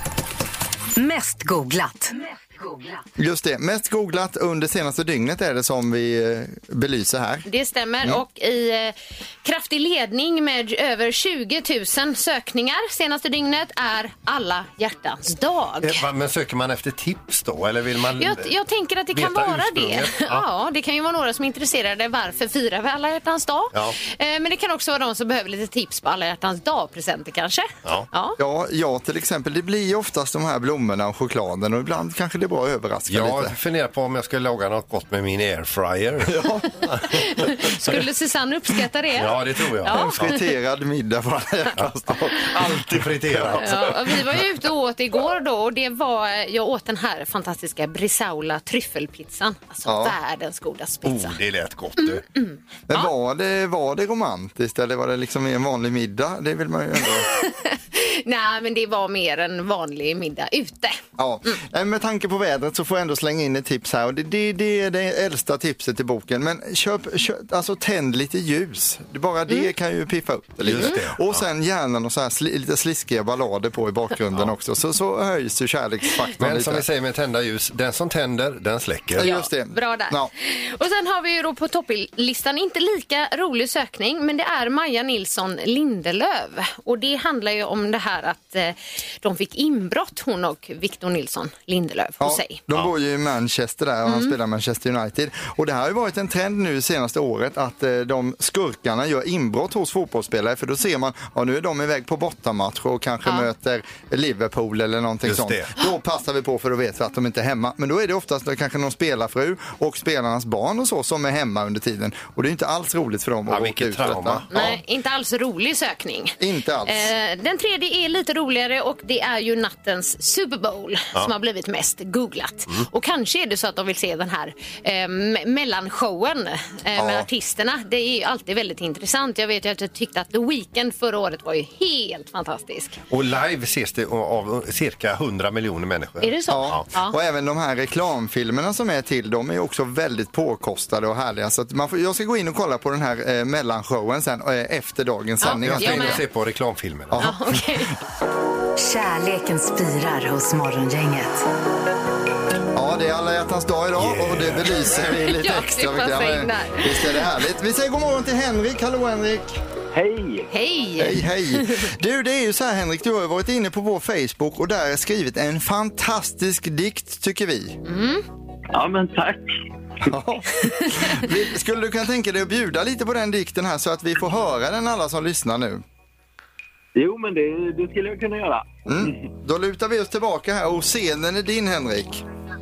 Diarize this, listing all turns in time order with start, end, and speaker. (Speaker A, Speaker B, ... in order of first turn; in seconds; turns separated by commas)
Speaker A: 1.0-2.9, Speaker B: 3.2-7.5, Speaker C: 7.5-16.0, Speaker D: 15.8-18.5, Speaker C: 18.2-28.4, Speaker D: 19.1-20.4, Speaker B: 28.4-33.5, Speaker D: 33.1-37.5, Speaker B: 36.3-36.6, Speaker C: 37.0-40.4, Speaker D: 39.2-40.1, Speaker B: 39.9-43.9, Speaker D: 42.5-44.3, Speaker C: 43.6-51.4, Speaker B: 49.9-50.2, Speaker D: 51.0-52.2, Speaker C: 52.0-53.1, Speaker B: 52.9-57.3, Speaker C: 57.3-61.6, Speaker B: 61.2-76.9, Speaker D: 70.6-71.4, Speaker D: 76.4-79.3, Speaker B: 79.1-80.3, Speaker C: 79.2-92.6, Speaker B: 92.2-114.5, Speaker C: 94.1-94.3, Speaker D: 105.3-105.7, Speaker D: 113.5-114.8, Speaker C: 114.5-133.0, Speaker B: 116.4-117.1, Speaker B: 127.0-127.3, Speaker D: 133.1-136.9, Speaker C: 136.2-137.2, Speaker B: 136.5-146.2, Speaker C: 145.4-146.2, Speaker D: 145.6-147.3, Speaker B: 147.1-147.6, Speaker C: 147.2-147.9, Speaker A: 148.8-151.4, Speaker B: 152.7-159.6, Speaker D: 154.0-155.2, Speaker C: 155.3-157.3, Speaker E: 159.9-160.5, Speaker C: 160.5-161.9, Speaker B: 161.0-167.8, Speaker C: 167.8-168.2, Speaker E: 168.7-169.5, Speaker B: 170.1-175.8, Speaker E: 176.9-179.2, Speaker B: 178.9-182.2